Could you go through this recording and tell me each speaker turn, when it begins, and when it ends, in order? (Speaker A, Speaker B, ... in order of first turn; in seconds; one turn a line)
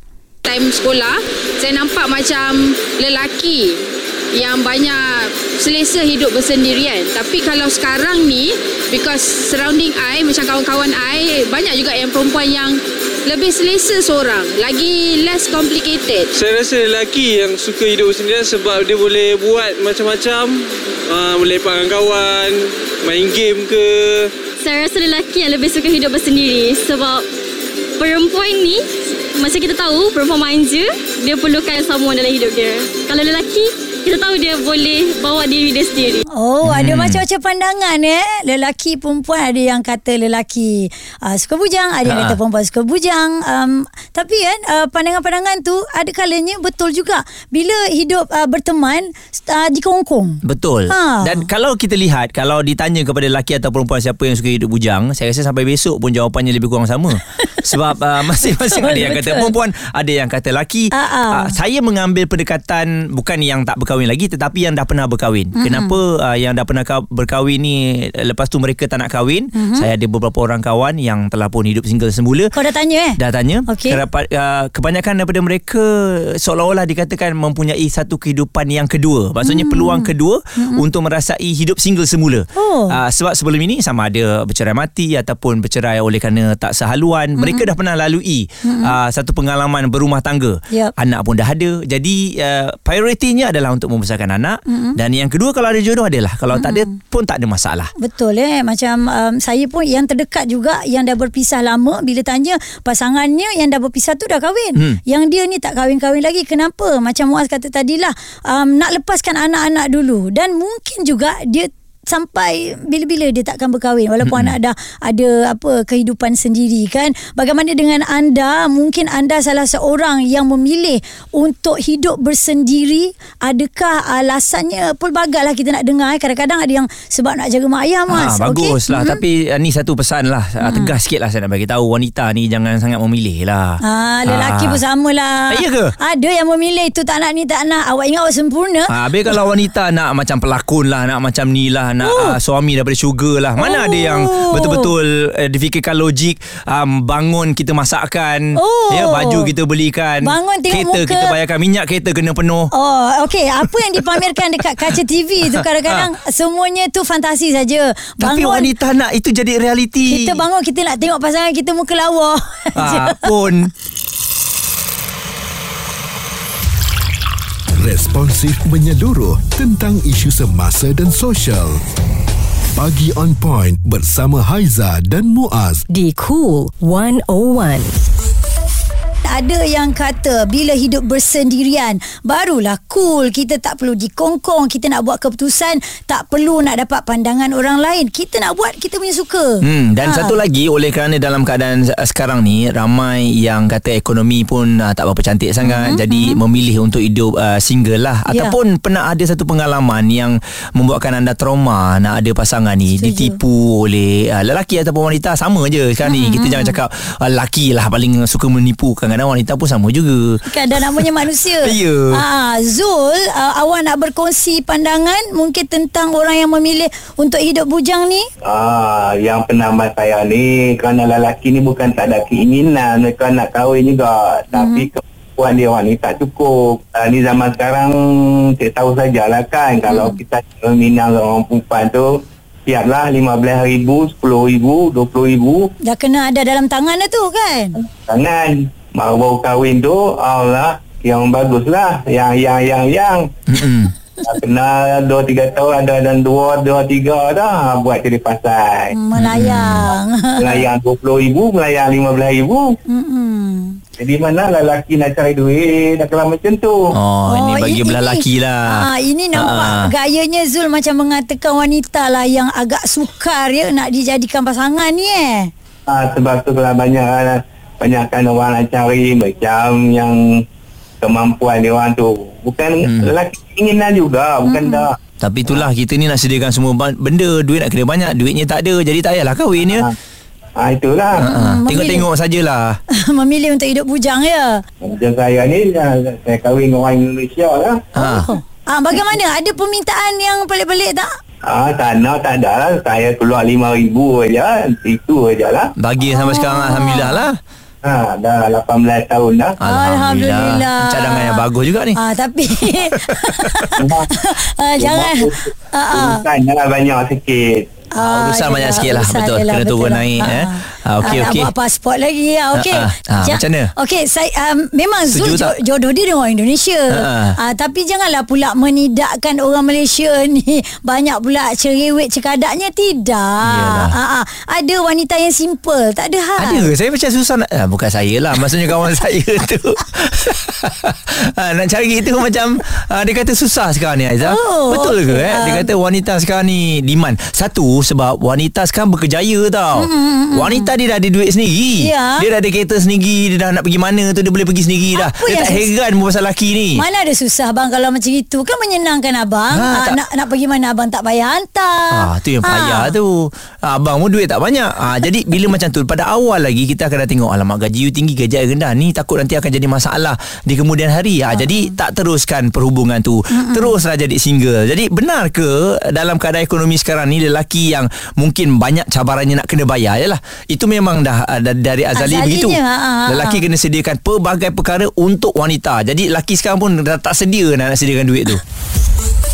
Speaker A: 0.4-3.8
Speaker A: 4.3-16.3
Speaker B: 16.3-24.3
Speaker C: 24.6-27.2
Speaker C: 28.0-28.8
Speaker C: 29.3-36.2
Speaker D: 36.3-51.5
Speaker E: 36.6-37.2
Speaker E: 42.0-42.4
Speaker E: 50.4-72.5
Speaker D: 58.6-59.5
Speaker D: 60.9-61.5
Speaker D: 65.5-66.0
Speaker D: 69.5-69.9
Speaker D: 72.5-74.0
Speaker E: 73.2-97.9
Speaker D: 79.4-80.8
Speaker D: 82.5-83.0
Speaker D: 87.4-87.7
Speaker D: 88.6-88.9
Speaker D: 94.7-95.0
Speaker D: 96.5-96.9
Speaker D: 98.0-129.2
Speaker E: 114.2-114.5
Speaker E: 128.1-134.8
Speaker D: 130.6-130.9
Speaker D: 133.8-139.3
Speaker E: 135.5-135.9
Speaker E: 138.9-152.7
Speaker D: 142.0-142.4
Speaker D: 143.6-144.9
Speaker D: 148.6-149.5
Speaker D: 150.2-151.3
Speaker D: 152.7-158.7
Speaker E: 153.9-156.1
Speaker E: 158.2-160.4
Speaker D: 160.1-163.3
Speaker E: 162.8-163.7
Speaker F: 167.8-171.8
Speaker F: 172.8-175.8
Speaker G: 175.9-177.9
Speaker D: 179.2-190.4
Speaker E: 189.6-212.2
Speaker D: 195.6-196.4
Speaker D: 198.3-198.5
Speaker D: 203.0-203.4
Speaker D: 206.0-206.8
Speaker D: 210.5-218.3
Speaker H: 218.4-227.9
Speaker D: 224.6-224.9
Speaker H: 228.6-235.7
Speaker D: 229.9-230.1
Speaker D: 235.9-237.7
Speaker H: 238.1-243.2
Speaker E: 243.5-243.9
Speaker H: 244.2-248.9
Speaker D: 248.9-250.7
Speaker E: 249.1-249.9
Speaker H: 250.4-252.7
Speaker D: 252.9-253.8
Speaker H: 254.0-256.8
Speaker E: 257.0-259.9
Speaker D: 257.3-265.5
Speaker H: 265.9-270.4
Speaker H: 271.0-275.0
Speaker E: 272.9-273.1
Speaker D: 274.4-274.9
Speaker E: 275.2-279.9
Speaker H: 279.6-279.9
Speaker H: 280.6-281.3
Speaker E: 281.1-282.8
Speaker D: 281.2-282.1
Speaker D: 283.0-284.6
Speaker H: 284.8-287.8
Speaker E: 287.9-288.3
Speaker D: 288.0-291.1
Speaker H: 291.5-295.7
Speaker E: 295.8-297.4
Speaker D: 296.1-297.2
Speaker H: 297.8-299.6
Speaker E: 299.6-302.0
Speaker D: 299.7-306.2
Speaker E: 302.6-303.7
Speaker H: 303.8-304.1
Speaker H: 304.8-307.6
Speaker D: 308.0-326.7
Speaker E: 308.0-311.5
Speaker E: 312.5-313.7
Speaker E: 315.1-315.5
Speaker E: 316.9-317.4
Speaker E: 323.4-323.9
Speaker E: 326.4-346.8
Speaker D: 334.2-335.7
Speaker D: 339.8-340.7
Speaker D: 341.8-342.2
Speaker D: 344.9-345.7
Speaker D: 346.7-352.9
Speaker E: 349.5-350.0
Speaker E: 351.9-378.4
Speaker D: 361.3-361.6
Speaker D: 363.3-363.8
Speaker D: 371.9-373.4